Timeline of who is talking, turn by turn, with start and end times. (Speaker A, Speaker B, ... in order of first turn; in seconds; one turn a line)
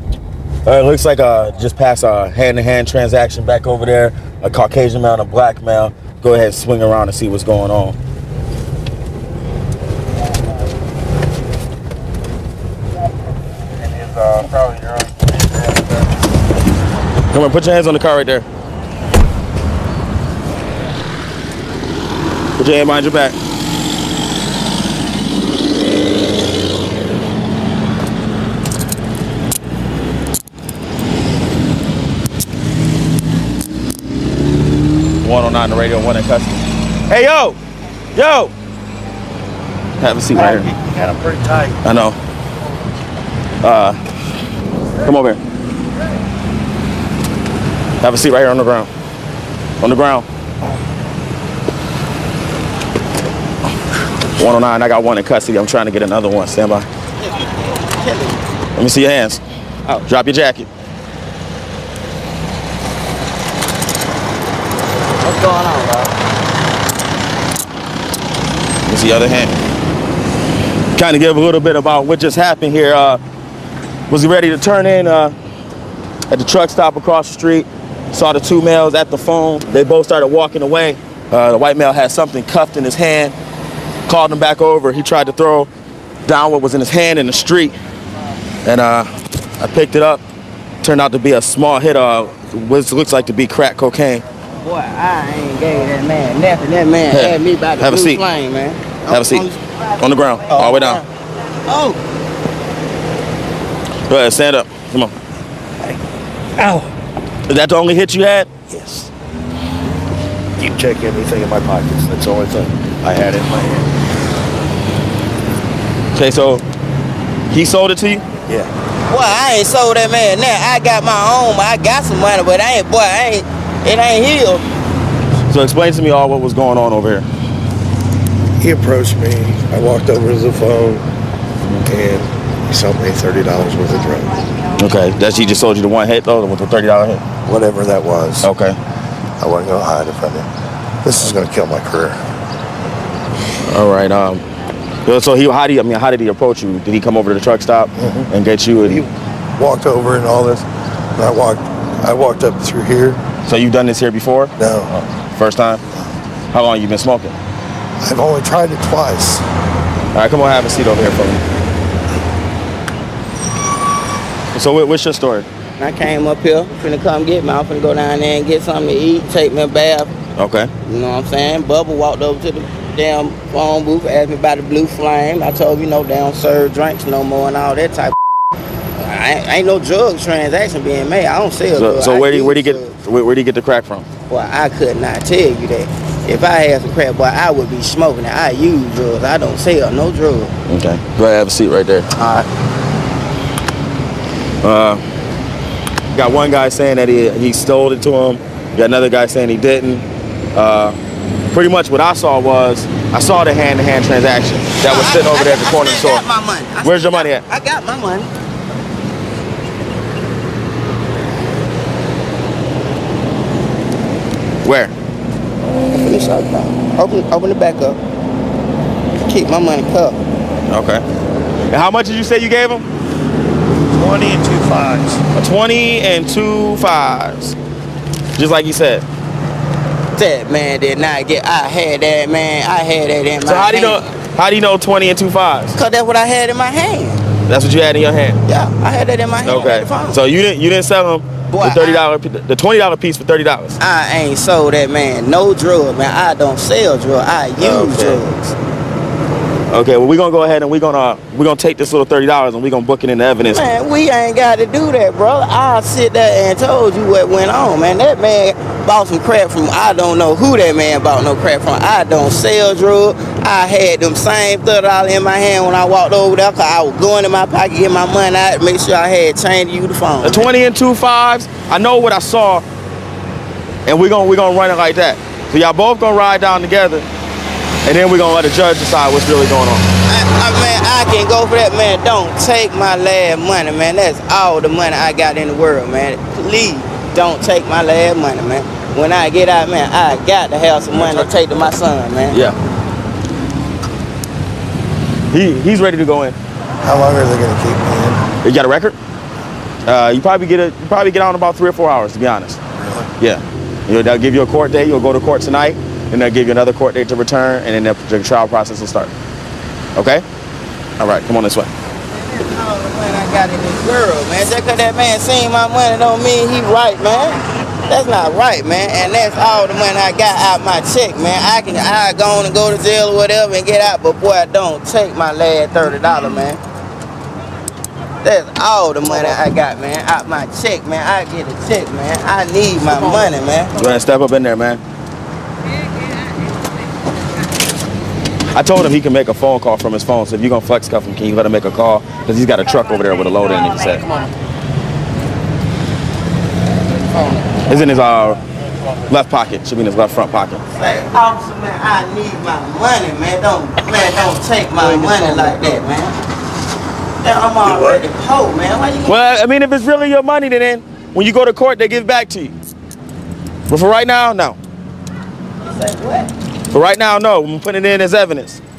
Speaker A: 0.7-8.0
Speaker A: 14.0-14.8
Speaker A: 17.3-18.4
Speaker A: 22.6-23.4
Speaker A: 35.2-37.6
Speaker A: 38.1-38.5
Speaker A: 40.0-40.7
Speaker B: 40.5-41.8
Speaker A: 41.8-42.2
Speaker A: 43.6-44.0
Speaker A: 45.0-45.4
Speaker A: 48.0-48.9
Speaker A: 49.8-50.3
Speaker A: 54.4-56.9
Speaker C: 57.2-58.5
Speaker A: 58.8-59.4
Speaker A: 60.1-60.7
Speaker C: 65.1-66.1
Speaker A: 68.9-69.6
Speaker A: 71.0-73.2
Speaker A: 74.1-75.3
Speaker A: 76.3-83.3
Speaker A: 84.1-85.7
Speaker A: 86.2-87.8
Speaker A: 88.7-90.2
Speaker A: 90.8-94.2
Speaker C: 94.6-99.8
Speaker A: 97.1-98.2
Speaker A: 99.1-101.0
Speaker C: 100.5-101.0
Speaker C: 101.7-102.0
Speaker A: 104.1-105.1
Speaker B: 106.6-106.9
Speaker A: 107.5-108.5
Speaker B: 108.7-109.1
Speaker B: 110.6-113.9
Speaker A: 116.1-116.6
Speaker A: 117.5-118.2
Speaker C: 119.1-124.7
Speaker A: 125.5-127.3
Speaker B: 128.6-131.1
Speaker B: 131.8-134.5
Speaker A: 134.8-137.2
Speaker B: 137.4-138.5
Speaker A: 138.4-138.8
Speaker B: 139.4-140.5
Speaker B: 141.0-142.2
Speaker A: 143.7-144.4
Speaker A: 145.1-149.1
Speaker B: 148.0-148.3
Speaker B: 149.6-153.2
Speaker A: 153.4-154.5
Speaker B: 154.6-155.0
Speaker A: 155.4-155.8
Speaker A: 156.5-157.3
Speaker B: 158.0-159.5
Speaker A: 160.1-161.4
Speaker A: 164.5-165.5
Speaker C: 165.8-170.1
Speaker A: 170.4-170.7
Speaker C: 170.8-178.2
Speaker C: 179.0-183.0
Speaker A: 181.8-184.1
Speaker C: 184.3-190.5
Speaker A: 190.7-192.1
Speaker C: 192.2-192.5
Speaker A: 194.6-195.0
Speaker A: 196.2-200.0
Speaker A: 200.6-201.0
Speaker A: 201.5-206.2
Speaker C: 204.8-208.3
Speaker A: 206.8-207.4
Speaker A: 214.6-214.9
Speaker C: 215.9-218.0
Speaker C: 219.2-220.2
Speaker A: 220.7-221.0
Speaker A: 221.7-222.9
Speaker B: 224.0-225.2
Speaker A: 225.3-227.6
Speaker A: 228.4-229.0
Speaker C: 230.2-234.0
Speaker A: 233.4-235.8
Speaker C: 235.8-237.3
Speaker A: 237.5-238.4
Speaker C: 238.5-240.2
Speaker A: 239.4-243.8
Speaker C: 241.5-242.0
Speaker C: 243.8-248.5
Speaker A: 247.6-248.2
Speaker A: 249.7-253.6
Speaker C: 253.4-270.5
Speaker A: 270.2-272.6
Speaker A: 273.9-277.1
Speaker A: 277.9-279.9
Speaker C: 280.1-292.4
Speaker A: 295.3-296.4
Speaker B: 296.8-298.3
Speaker A: 298.4-299.0
Speaker A: 299.9-302.6
Speaker A: 303.2-309.1
Speaker A: 310.0-310.2
Speaker A: 311.0-311.7
Speaker C: 312.1-326.6
Speaker C: 328.2-333.8
Speaker A: 333.8-334.8
Speaker A: 338.5-344.1
Speaker A: 347.7-348.4
Speaker A: 349.1-350.6
Speaker C: 350.7-356.1
Speaker C: 357.2-359.2
Speaker A: 359.1-362.5
Speaker A: 363.7-364.6
Speaker C: 365.6-366.3
Speaker A: 366.7-368.6